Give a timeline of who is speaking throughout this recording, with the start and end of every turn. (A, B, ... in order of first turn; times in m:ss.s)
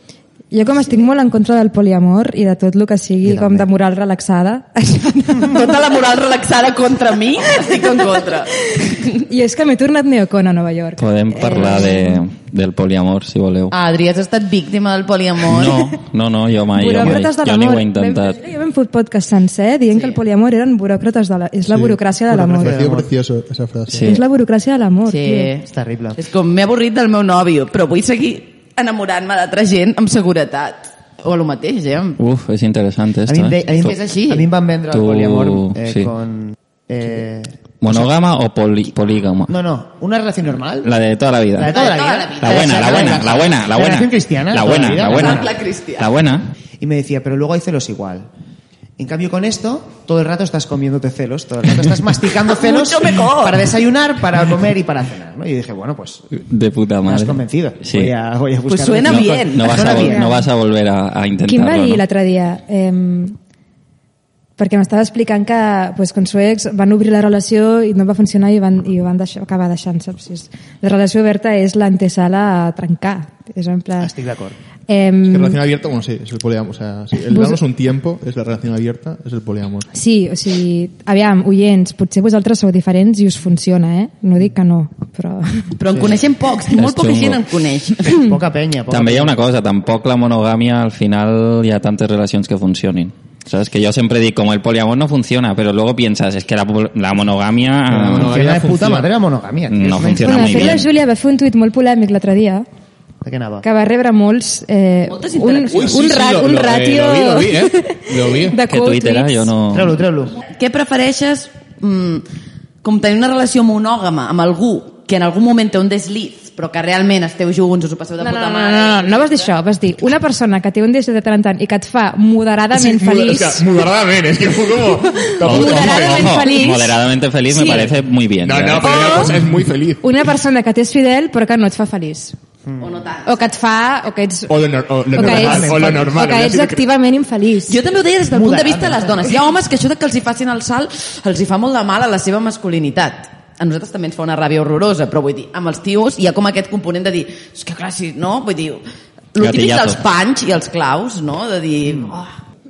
0:00.5-0:05.8 A
0:03.2-0:03.7 B
0:05.5-0:09.2 C
0:07.5-0:07.8 A
0:08.6-0:12.2 A
0:11.0-0:13.7 D
0:13.7-0:15.9 C
0:15.4-0:18.4 D
0:16.7-0:22.8 A
0:19.9-0:20.2 C
0:21.7-0:22.0 E
0:22.3-0:23.1 B
0:22.5-0:24.2 E
0:23.9-0:24.2 D
0:24.0-0:25.5 A
0:25.0-0:32.2 C
0:25.6-0:26.2 B
0:32.2-0:33.9 D
0:33.3-0:38.1 B
0:33.7-0:34.5 C
0:34.9-0:36.1 D
0:37.8-0:39.5 D
0:39.5-0:40.9 B
0:40.8-0:41.7 D
0:41.5-0:45.5 B
0:41.6-0:43.4 C
0:42.3-0:46.5 D
0:44.9-0:46.1 C
0:46.8-0:48.3 B
0:49.0-0:56.3 B
0:52.4-0:53.8 C
0:56.3-0:58.1 D
0:57.0-1:00.3 B
0:58.7-1:00.0 C
0:59.0-1:02.0 D
0:59.9-1:00.4 A
1:01.4-1:03.4 A
1:04.6-1:14.1 A
1:14.0-1:14.6 B
1:14.9-1:15.6 A
1:15.2-1:19.9 E
1:17.3-1:17.6 A
1:19.9-1:25.7 A
1:25.7-1:28.2 C
1:25.9-1:26.2 B
1:26.7-1:27.4 D
1:28.1-1:29.4 B
1:28.9-1:38.3 D
1:37.9-1:39.1 E
1:38.1-1:40.8 B
1:39.7-1:40.9 D
1:40.2-1:42.6 A
1:43.2-1:43.6 B
1:43.6-1:49.5 A
1:45.1-1:46.1 C
1:45.7-1:48.6 E
1:48.6-1:50.0 D
1:49.7-1:50.4 B
1:50.4-1:52.2 C
1:52.8-1:59.5 C
1:58.2-2:03.7 A
2:02.7-2:06.5 E
2:05.1-2:07.0 A
2:05.4-2:09.3 D
2:07.5-2:07.9 A
2:08.4-2:10.1 E
2:08.8-2:09.4 A
2:10.0-2:12.4 A
2:12.6-2:12.9 B
2:12.8-2:13.4 C
2:13.2-2:14.5 A
2:14.5-2:16.8 E
2:15.1-2:17.8 A
2:15.2-2:16.1 B
2:17.7-2:28.8 C
2:18.3-2:19.3 B
2:29.3-2:32.3 C
2:29.4-2:30.0 D